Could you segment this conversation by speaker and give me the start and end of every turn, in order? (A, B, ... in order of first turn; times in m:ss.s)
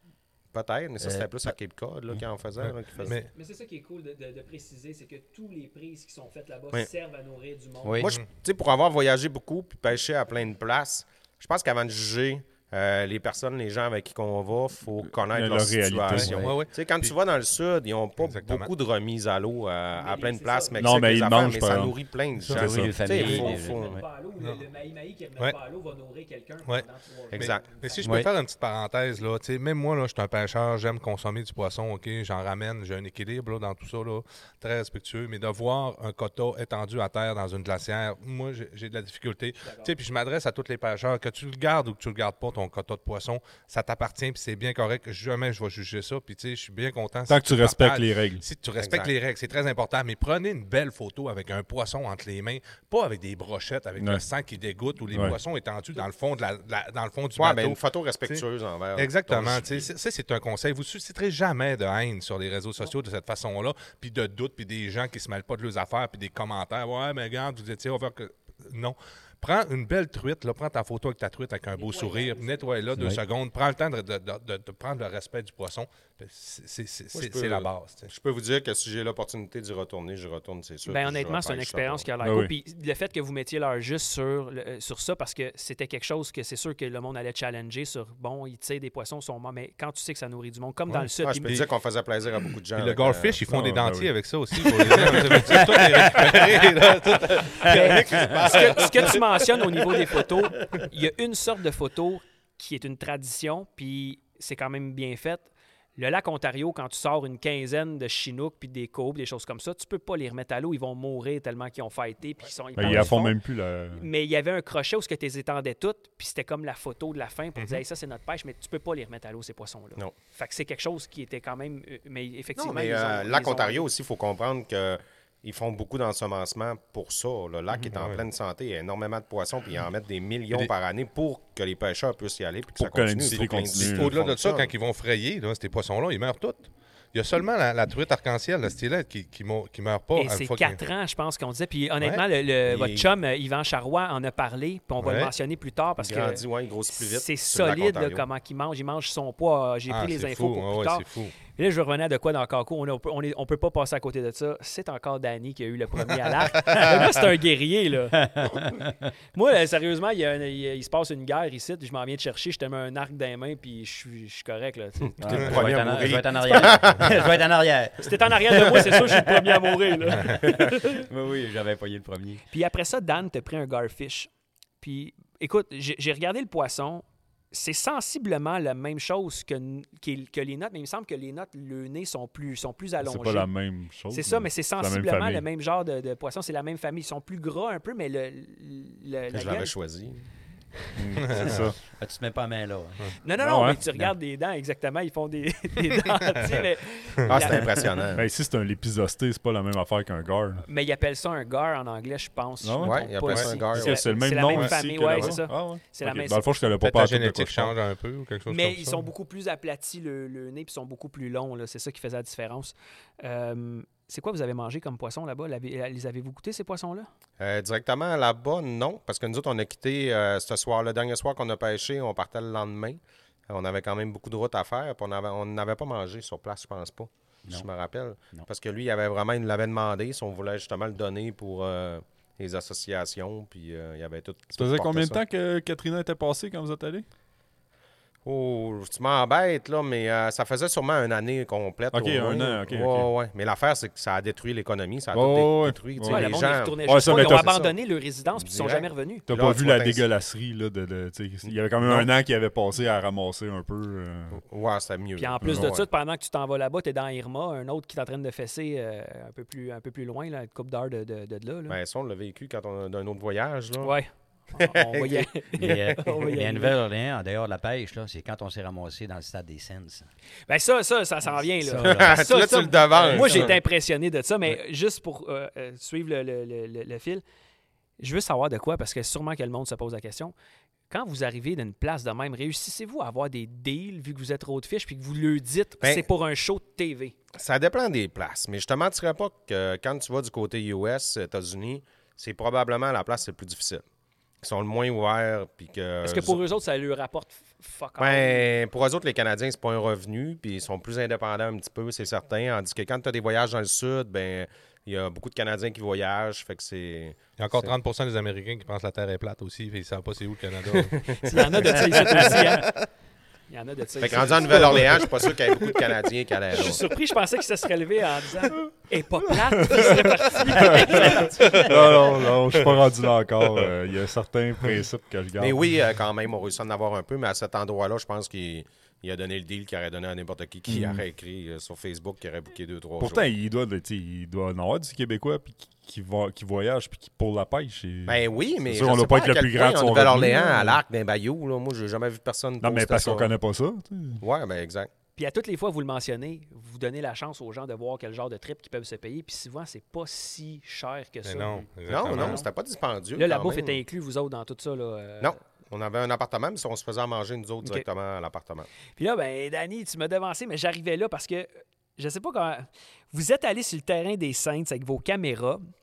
0:00.5-0:03.2 A
0:01.0-0:01.5 B
0:02.7-0:03.3 C
0:03.3-0:08.0 D
0:07.8-0:08.2 B
0:08.0-0:24.0 A
0:15.2-0:16.5 E
0:16.1-0:17.1 C
0:18.2-0:18.7 C
0:19.9-0:21.3 D
0:20.8-0:23.0 E
0:22.5-0:24.0 B
0:23.0-0:28.2 D
0:26.6-0:58.4 C
0:27.3-0:28.3 A
0:39.6-0:39.9 D
0:47.3-0:48.4 E
0:48.8-0:49.1 A
0:54.0-0:54.2 E
0:57.4-0:59.9 A
0:59.0-1:18.1 C
1:11.7-1:12.8 D
1:17.1-1:22.1 A
1:20.8-1:31.6 D
1:22.2-1:22.5 E
1:31.2-1:33.4 A
1:32.8-1:39.2 C
1:33.5-1:34.1 E
1:34.7-1:35.1 E
1:37.6-1:53.4 D
1:37.6-1:38.3 B
1:52.8-1:54.0 E
1:53.9-2:03.9 D
2:02.6-2:14.7 A
2:07.9-2:08.2 C
2:12.8-2:14.2 E
2:13.3-2:20.8 C
2:20.2-2:38.6 D
2:22.7-2:23.1 A
2:25.0-2:25.3 C
2:26.0-2:28.2 A
2:29.9-2:31.3 C
2:38.2-2:38.9 B
2:39.3-2:45.6 D
2:45.2-2:47.3 A
2:45.2-2:49.4 B
2:48.0-2:51.0 D
2:50.1-2:50.4 C
2:50.2-2:52.4 B
2:52.5-2:54.3 D
2:54.8-3:03.5 D
3:03.0-3:05.4 E
3:04.1-3:09.7 D
3:09.3-3:10.2 A
3:10.9-3:11.8 E
3:11.2-3:11.7 C
3:11.3-3:13.1 B
3:13.2-3:17.9 D
3:13.4-3:14.1 E
3:17.3-3:18.2 A
3:18.1-3:20.6 E
3:20.6-3:26.7 D
3:22.6-3:23.1 E
3:22.8-3:24.1 A
3:23.6-3:27.7 E
3:24.5-3:24.8 C
3:26.8-3:29.0 C
3:28.5-3:37.1 D
3:37.4-3:55.2 A
3:54.6-3:57.0 E
3:58.2-4:07.7 A
4:01.9-4:03.1 E
4:05.1-4:07.7 E
4:06.1-4:09.2 D
4:08.3-4:10.0 A
4:09.3-4:14.4 E
4:11.4-4:12.1 A
4:14.3-4:15.8 A
4:15.2-4:21.8 D
4:15.4-4:15.7 E
4:21.7-4:24.0 A
4:23.8-4:26.8 D
4:24.6-4:25.4 A
4:25.6-4:30.1 B
4:30.5-4:37.2 D
4:31.6-4:32.2 B
4:31.8-4:33.6 A
4:33.1-4:33.5 B
4:38.0-4:40.3 D
4:40.9-4:47.1 D
4:45.8-4:46.0 A
4:47.3-4:53.8 A
4:54.4-4:56.4 A
4:56.0-4:58.5 D
4:58.0-5:07.7 A
5:07.4-5:11.0 C
5:10.7-5:12.4 A
5:11.2-5:12.7 D
5:11.9-5:12.7 C
5:13.5-5:15.0 D
5:14.0-5:16.8 A
5:16.5-5:21.6 D
5:19.3-5:25.6 E
5:21.5-5:22.7 C
5:25.4-5:33.3 A
5:30.7-5:31.0 E
5:33.0-5:40.8 E
5:38.0-5:43.3 A
5:42.6-5:44.2 E
5:44.2-5:44.9 A
5:45.2-5:52.4 D
5:51.2-5:52.4 C
5:51.9-5:53.8 A
5:53.2-5:55.4 D
5:55.2-5:58.7 A
5:59.0-6:05.6 D